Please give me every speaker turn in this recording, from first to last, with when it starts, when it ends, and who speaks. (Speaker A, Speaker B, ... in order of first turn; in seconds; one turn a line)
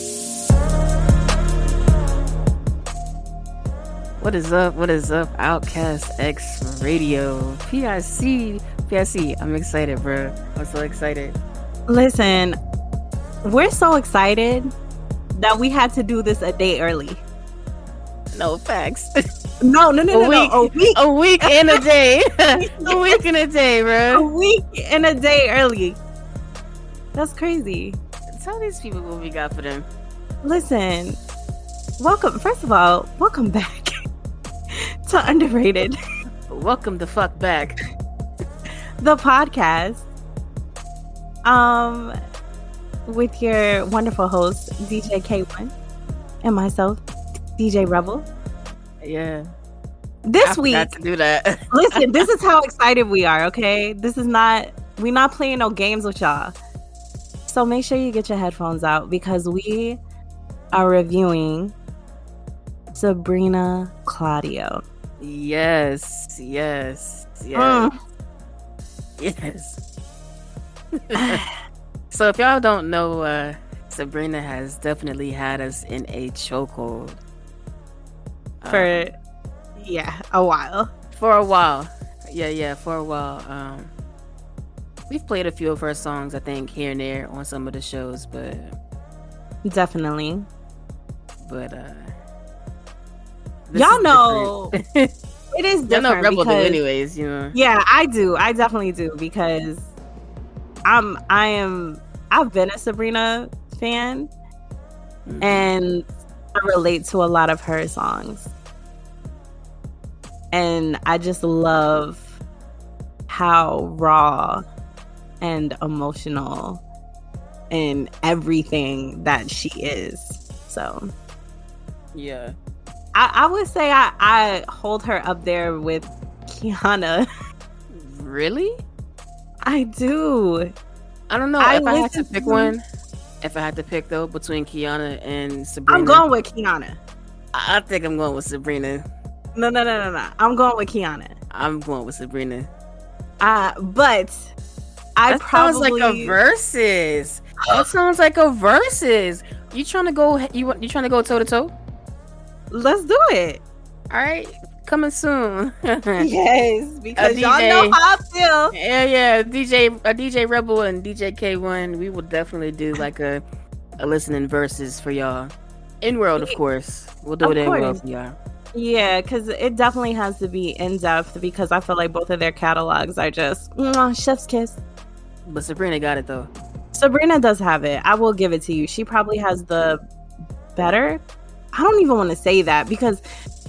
Speaker A: 4.2-11.4
Speaker B: 11.9-12.6
Speaker B: 13.4-14.7
Speaker B: 15.3-17.2
Speaker A: 18.3-19.1
Speaker B: 19.6-21.8
Speaker A: 20.1-24.3
Speaker B: 22.6-23.2
Speaker B: 24.1-26.0
Speaker B: 27.1-28.0
Speaker A: 28.3-29.9
Speaker B: 30.4-31.2
Speaker B: 32.0-33.9
Speaker B: 34.7-36.0
Speaker A: 36.5-37.8
Speaker B: 39.0-40.0
Speaker B: 41.5-42.1
Speaker B: 43.0-45.7
Speaker B: 46.4-47.0
Speaker B: 47.5-48.3
Speaker A: 49.0-49.4
Speaker B: 50.2-51.0
Speaker A: 50.4-52.2
Speaker B: 51.7-56.5
Speaker B: 57.5-60.0
Speaker B: 60.7-61.8
Speaker B: 63.0-64.8
Speaker A: 65.2-67.9
Speaker B: 67.5-67.9
Speaker A: 69.2-69.8
Speaker A: 71.0-71.4
Speaker B: 71.2-71.5
Speaker A: 72.1-77.2
Speaker A: 78.6-79.1
Speaker B: 78.7-79.1
Speaker B: 79.8-80.9
Speaker A: 81.1-83.9
Speaker A: 85.1-88.8
Speaker B: 89.7-90.5
Speaker A: 91.4-92.1
Speaker A: 93.7-95.1
Speaker B: 93.8-94.7
Speaker B: 95.5-96.8
Speaker A: 95.9-97.6
Speaker B: 97.5-99.9
Speaker B: 100.8-104.3
Speaker A: 105.3-105.7
Speaker B: 105.4-108.5
Speaker B: 110.5-112.3
Speaker B: 113.3-114.6
Speaker B: 115.4-116.8
Speaker B: 117.7-121.1
Speaker A: 122.2-122.5
Speaker B: 123.1-127.3
Speaker A: 127.9-128.8
Speaker B: 129.6-130.7
Speaker A: 131.3-132.8
Speaker B: 131.6-132.7
Speaker A: 133.4-136.2
Speaker B: 135.9-137.0
Speaker A: 137.5-139.0
Speaker B: 139.6-141.4
Speaker A: 141.5-142.7
Speaker B: 143.4-144.5
Speaker B: 145.2-146.4
Speaker A: 145.3-151.7
Speaker B: 152.7-153.6
Speaker A: 154.1-156.3
Speaker B: 156.2-158.8
Speaker A: 157.2-158.0
Speaker A: 158.7-163.4
Speaker A: 164.0-168.3
Speaker B: 167.4-168.0
Speaker B: 168.7-174.8
Speaker A: 175.5-176.5
Speaker B: 176.9-180.0
Speaker B: 180.8-183.2